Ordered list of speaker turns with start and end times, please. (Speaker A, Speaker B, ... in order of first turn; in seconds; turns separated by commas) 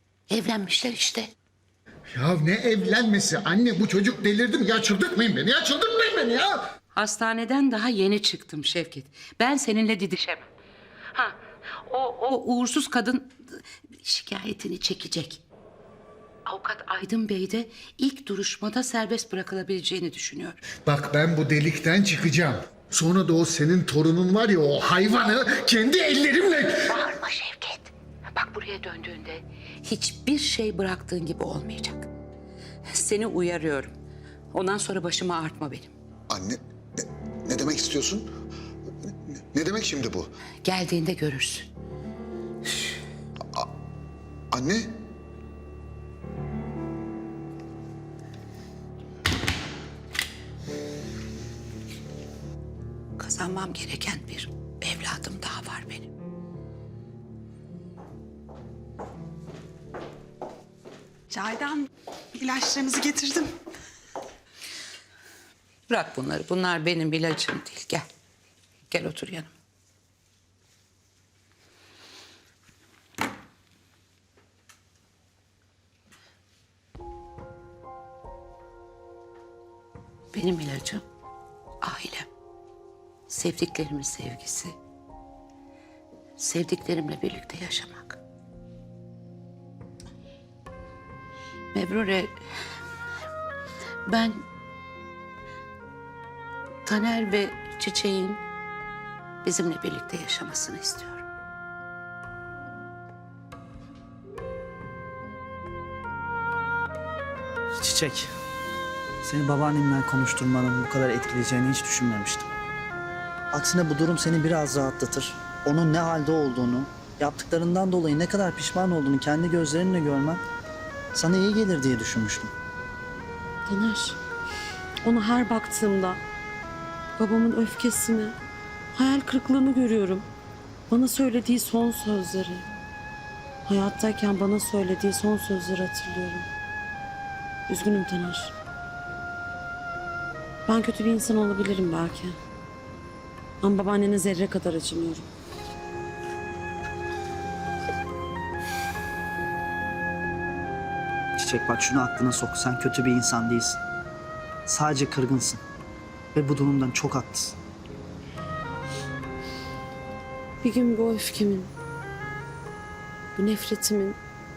Speaker A: 0.3-1.3, Speaker B: 2.1-6.6, Speaker A: 7.0-10.4, Speaker A: 11.1-15.4, Speaker A: 16.5-20.6, Speaker B: 20.9-26.7, Speaker A: 26.7-32.1, Speaker A: 32.9-34.0, Speaker A: 34.5-35.9, Speaker C: 36.3-36.6, Speaker C: 37.5-38.2, Speaker C: 39.3-40.3, Speaker A: 40.6-41.7, Speaker C: 44.5-44.9, Speaker A: 53.2-56.1, Speaker D: 61.3-63.5, Speaker A: 65.9-68.1, Speaker A: 68.9-69.5, Speaker A: 80.3-81.0, Speaker A: 81.8-82.3, Speaker A: 83.3-84.8, Speaker A: 86.4-88.2, Speaker A: 91.7-92.4, Speaker A: 94.1-94.4, Speaker A: 96.9-98.4, Speaker A: 99.4-101.2, Speaker E: 107.8-108.3, Speaker E: 109.2-112.5, Speaker E: 113.5-120.4, Speaker E: 121.1-122.5, Speaker F: 123.7-124.2, Speaker F: 125.0-126.2, Speaker F: 127.2-128.4, Speaker F: 128.9-130.3, Speaker F: 130.9-132.7, Speaker F: 133.7-136.5, Speaker F: 137.7-138.5, Speaker F: 140.7-142.4, Speaker F: 143.6-145.3, Speaker E: 151.4-153.8, Speaker E: 154.7-155.6, Speaker E: 156.3-157.6, Speaker F: 160.6-161.7, Speaker F: 163.4-164.2